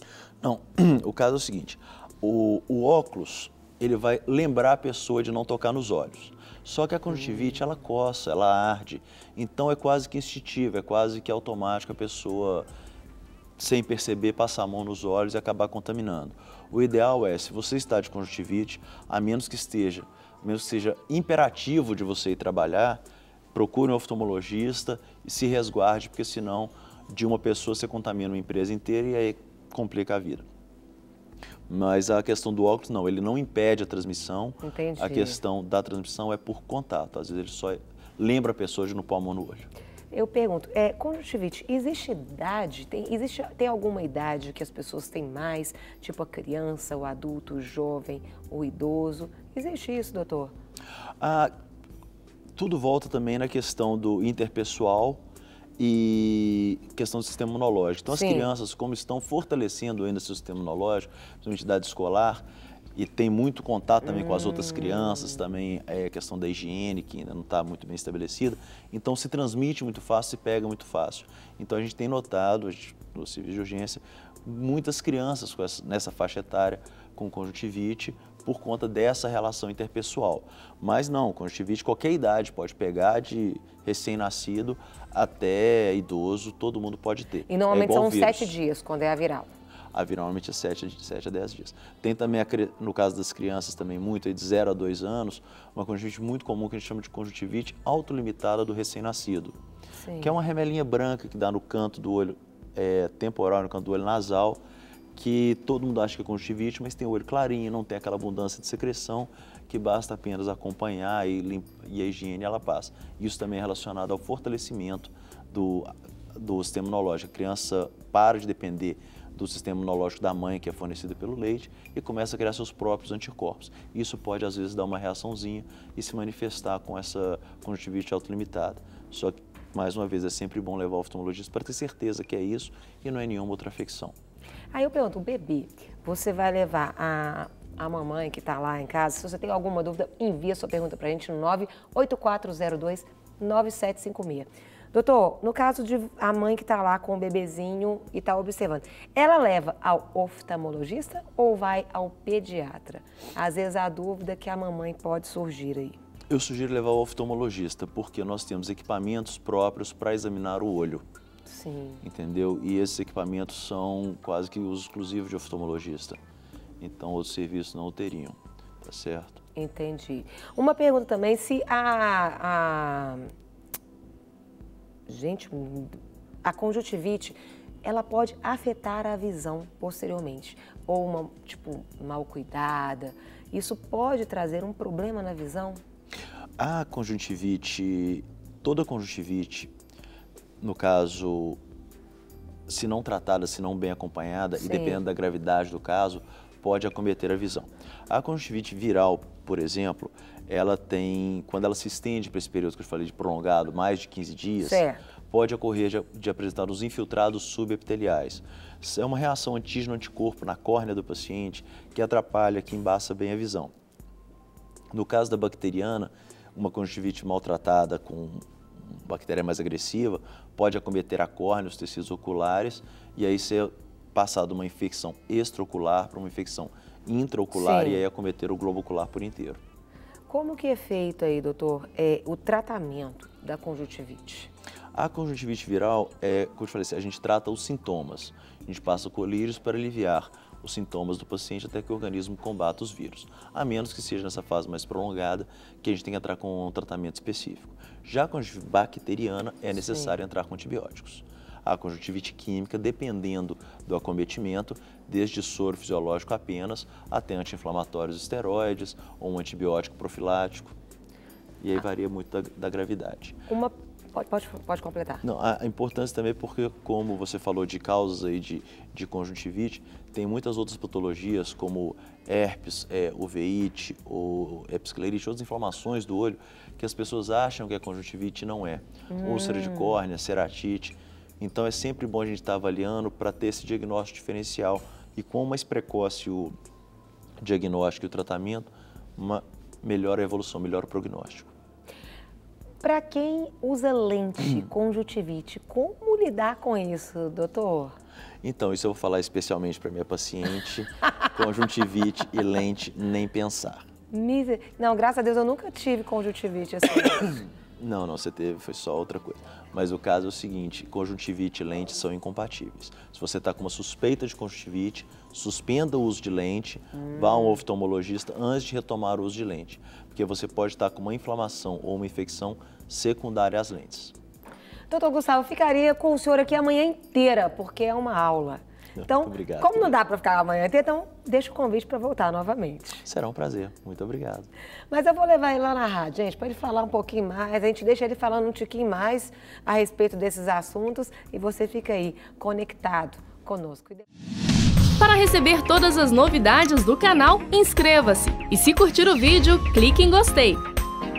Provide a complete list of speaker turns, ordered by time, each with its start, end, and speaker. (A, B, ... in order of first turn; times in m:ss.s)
0:00.4-0:12.7 A
0:13.6-0:23.0 A
0:23.5-0:30.5 A
0:31.7-0:39.7 A
0:34.6-0:35.4 B
0:40.1-0:50.5 B
0:51.2-0:51.5 A
0:52.5-0:55.2 A
0:55.8-1:28.6 A
0:58.1-0:58.5 B
1:04.0-1:05.4 B
1:27.5-1:29.5 B
1:29.9-1:39.6 A
1:40.0-1:40.3 B
1:40.2-1:44.6 A
1:45.1-2:14.2 A
2:14.7-2:36.0 B
2:36.3-2:41.0 A
2:41.5-2:42.0 B
2:42.0-2:46.2 A
2:46.8-2:49.4 A
2:49.6-2:53.3 B
2:55.1-3:05.8 B
3:06.6-3:09.7 A
3:10.6-3:11.6 A
3:12.7-3:33.7 A
3:14.6-3:15.0 B
3:24.6-3:25.0 B
3:34.9-3:49.6 A
3:47.5-3:48.0 B
3:50.3-3:54.5 B
3:54.9-4:20.8 A
4:09.8-4:10.1 B
4:21.6-4:23.4 A
4:23.5-4:25.2 B
4:25.2-4:46.5 A
4:39.1-4:40.0 B
4:47.4-4:51.5 A
4:52.8-4:58.0 B
4:58.4-5:03.9 A
5:04.1-5:07.4 B
5:07.8-5:24.1 A
5:16.9-5:17.6 B
5:24.9-5:33.0 B
5:29.0-5:30.0 A
5:33.0-5:34.5 A
5:34.9-5:44.1 B
5:45.0-5:50.6 C